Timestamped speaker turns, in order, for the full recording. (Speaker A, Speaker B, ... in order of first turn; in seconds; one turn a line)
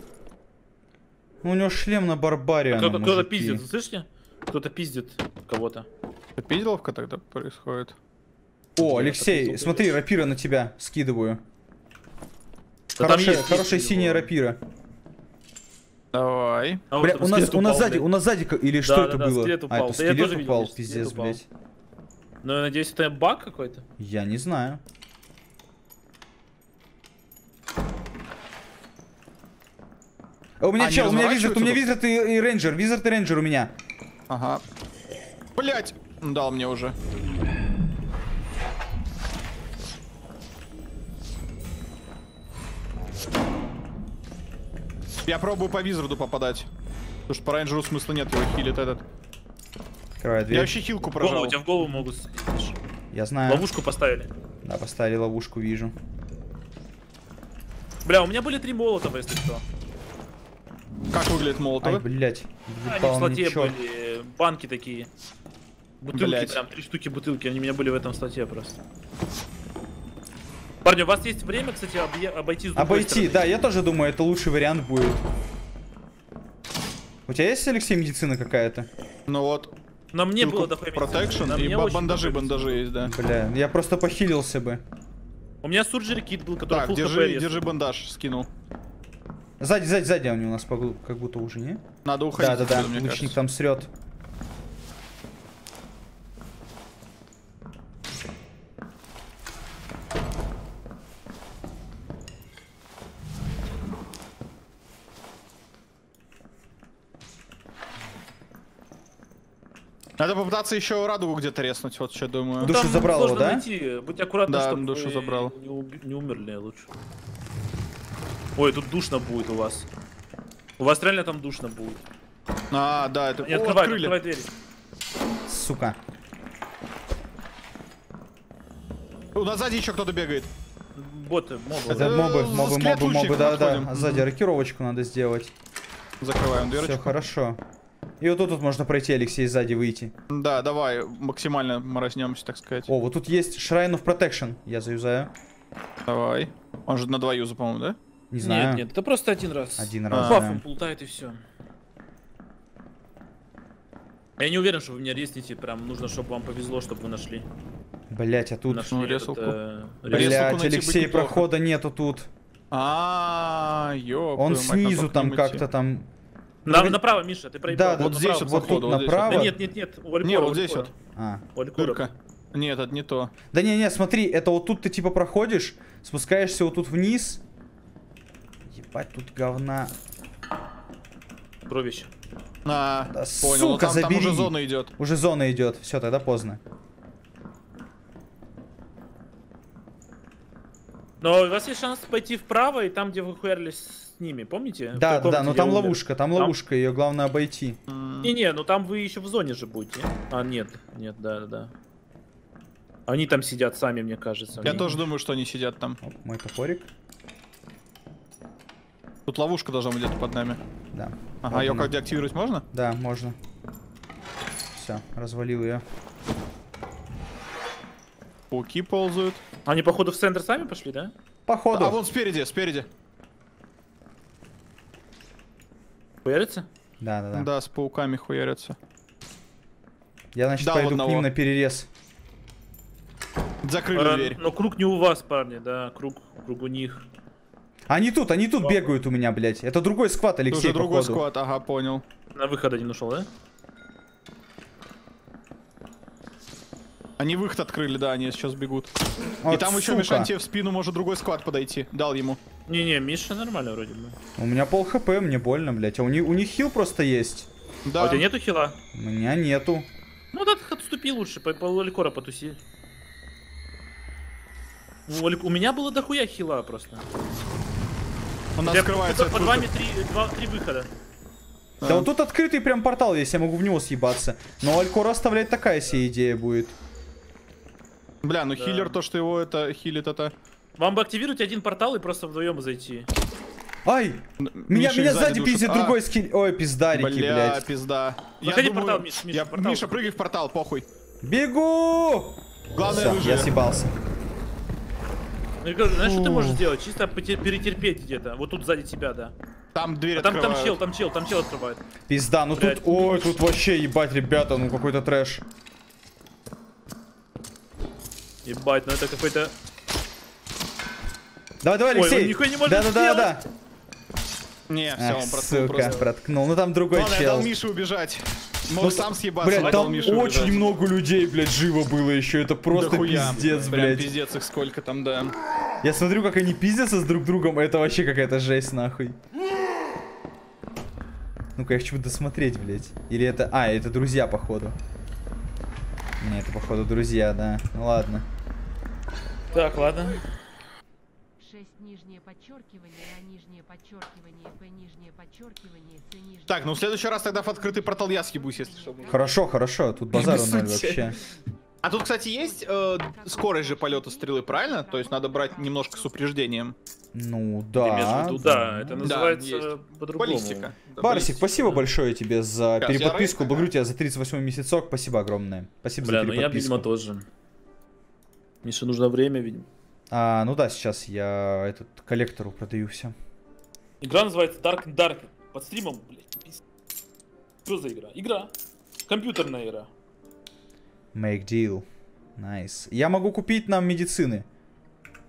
Speaker A: 1.4-3.6
Speaker B: 2.7-5.9
Speaker C: 6.4-8.0
Speaker A: 8.8-11.4
Speaker B: 8.8-9.9
Speaker A: 13.0-14.6
Speaker B: 13.0-14.3
Speaker C: 16.1-16.9
Speaker B: 16.9-18.1
Speaker A: 17.0-21.5
Speaker B: 18.8-21.4
Speaker B: 22.4-23.8
Speaker A: 24.0-24.8
Speaker A: 30.6-33.7
Speaker C: 30.8-31.8
Speaker C: 34.3-34.6
Speaker C: 35.6-37.0
Speaker C: 45.3-46.7
Speaker C: 47.3-49.0
Speaker A: 50.2-50.8
Speaker C: 50.5-51.6
Speaker B: 51.2-52.8
Speaker A: 53.1-53.7
Speaker B: 53.5-54.3
Speaker A: 54.6-56.0
Speaker B: 58.0-59.6
Speaker C: 61.1-62.0
Speaker A: 61.8-63.8
Speaker B: 62.9-65.1
Speaker B: 66.0-68.8
Speaker C: 66.1-66.6
Speaker B: 70.8-73.5
Speaker A: 72.8-75.2
Speaker A: 77.3-78.9
Speaker C: 79.3-79.7
Speaker B: 80.1-82.8
Speaker C: 80.4-83.1
Speaker A: 83.0-84.8
Speaker B: 85.6-87.7
Speaker C: 86.7-88.5
Speaker A: 89.6-91.8
Speaker C: 92.0-93.4
Speaker A: 92.4-93.9
Speaker C: 110.2-112.8
Speaker B: 112.6-116.9
Speaker A: 112.6-113.7
Speaker C: 114.5-115.5
Speaker B: 118.6-119.9
Speaker B: 120.8-122.0
Speaker C: 122.7-124.2
Speaker B: 123.4-124.5
Speaker A: 125.5-126.0
Speaker C: 129.3-130.5
Speaker B: 130.9-132.4
Speaker C: 131.9-134.3
Speaker A: 131.9-135.5
Speaker C: 136.2-137.2
Speaker A: 136.8-137.6
Speaker A: 138.2-140.1
Speaker C: 140.3-142.9
Speaker A: 142.9-145.3
Speaker C: 146.1-148.0
Speaker A: 148.3-148.9
Speaker B: 148.4-151.4
Speaker A: 149.8-150.6
Speaker C: 150.1-150.5
Speaker B: 154.4-157.5
Speaker A: 158.1-158.9
Speaker B: 158.7-160.5
Speaker C: 158.9-159.6
Speaker C: 160.1-161.5
Speaker A: 160.1-162.3
Speaker C: 162.7-165.6
Speaker A: 164.4-166.1
Speaker B: 166.7-170.9
Speaker A: 166.7-167.0
Speaker A: 167.7-169.6
Speaker C: 167.9-169.6
Speaker C: 170.2-170.9
Speaker A: 171.2-171.4
Speaker B: 171.6-172.1
Speaker C: 171.8-173.3
Speaker A: 173.5-177.4
Speaker A: 178.7-179.9
Speaker B: 181.7-182.1
Speaker C: 182.7-184.9
Speaker A: 183.1-186.6
Speaker B: 191.2-196.6
Speaker A: 194.9-197.8
Speaker C: 197.9-198.3
Speaker B: 198.2-201.7
Speaker B: 203.1-204.9
Speaker A: 204.6-205.0
Speaker C: 204.6-206.0
Speaker A: 206.0-206.9
Speaker C: 209.3-210.6
Speaker A: 210.9-211.9
Speaker C: 211.4-212.7
Speaker A: 212.7-213.4
Speaker A: 214.7-215.8
Speaker C: 218.5-219.4
Speaker B: 219.7-221.1
Speaker A: 221.5-222.0
Speaker C: 221.7-222.9
Speaker B: 226.2-226.7
Speaker A: 227.0-227.5
Speaker C: 227.3-228.8
Speaker A: 230.3-231.9
Speaker C: 230.6-231.3
Speaker C: 233.6-234.4
Speaker B: 233.9-237.1
Speaker A: 237.9-241.2
Speaker C: 240.5-242.1
Speaker B: 242.3-243.3
Speaker C: 247.2-248.9
Speaker A: 249.4-250.3
Speaker C: 249.5-252.4
Speaker B: 252.7-254.2
Speaker A: 254.4-257.5
Speaker C: 257.9-258.3
Speaker B: 258.0-258.8
Speaker A: 258.9-259.9
Speaker B: 260.3-262.6
Speaker B: 265.1-267.1
Speaker C: 268.6-269.7
Speaker B: 268.6-270.9
Speaker C: 271.8-272.1
Speaker A: 271.8-276.8
Speaker C: 278.2-280.3
Speaker B: 278.6-279.0
Speaker B: 280.8-283.1
Speaker A: 283.9-287.7
Speaker C: 284.4-286.0
Speaker C: 286.9-290.9
Speaker B: 288.4-290.1
Speaker A: 291.2-293.9
Speaker C: 292.8-293.5
Speaker B: 295.6-299.3
Speaker A: 295.9-296.6
Speaker C: 299.8-300.8
Speaker B: 300.1-301.8
Speaker A: 302.1-305.4
Speaker B: 302.6-303.4
Speaker B: 308.4-309.5
Speaker A: 311.6-313.5
Speaker B: 311.9-313.4
Speaker C: 314.7-316.0
Speaker A: 315.0-317.5
Speaker C: 316.9-320.7
Speaker A: 318.8-324.1
Speaker B: 319.5-320.7
Speaker C: 322.7-325.4
Speaker B: 323.0-323.8
Speaker A: 325.8-329.2
Speaker A: 331.6-334.8
Speaker A: 336.2-338.3
Speaker B: 339.5-340.2
Speaker D: 341.4-349.5
Speaker C: 346.5-349.2
Speaker A: 349.1-351.2
Speaker D: 350.0-356.4
Speaker C: 350.1-351.2
Speaker C: 351.8-356.8
Speaker A: 357.1-359.1
Speaker B: 357.8-360.8
Speaker C: 359.0-361.5
Speaker A: 361.0-366.9
Speaker C: 362.8-363.7
Speaker B: 366.0-367.3
Speaker B: 368.6-369.7
Speaker A: 370.1-373.1
Speaker B: 374.0-376.6
Speaker B: 377.6-378.5
Speaker B: 379.1-379.9
Speaker A: 381.1-381.9
Speaker A: 382.4-384.5